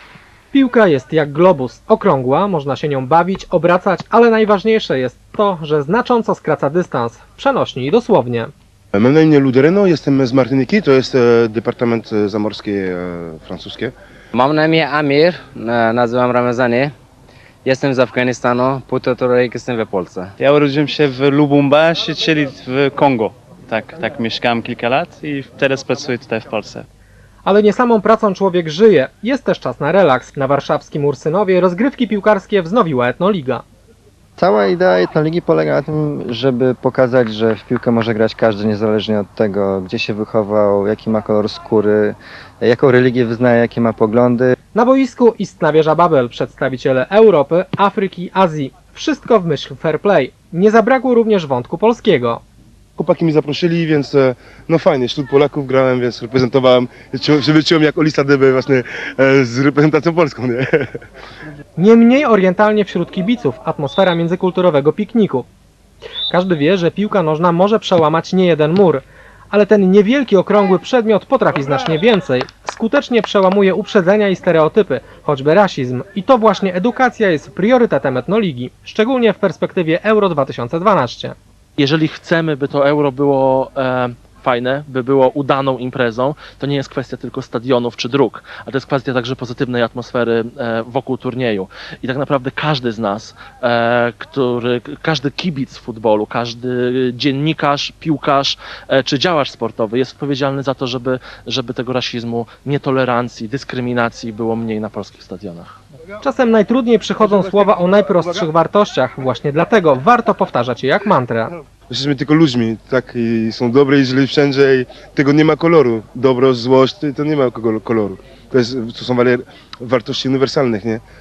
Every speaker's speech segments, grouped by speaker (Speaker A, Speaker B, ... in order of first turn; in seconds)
Speaker A: 0.5-8.5, 27.4-33.6, 44.7-52.4, 61.8-65.5, 66.3-81.3, 106.2-111.5
Speaker B: 8.9-13.9, 53.0-60.9, 111.9-121.0
Speaker C: 14.3-16.9, 17.6-20.3
Speaker D: 20.4-26.9
Speaker E: 34.4-44.5
Speaker F: 81.8-105.8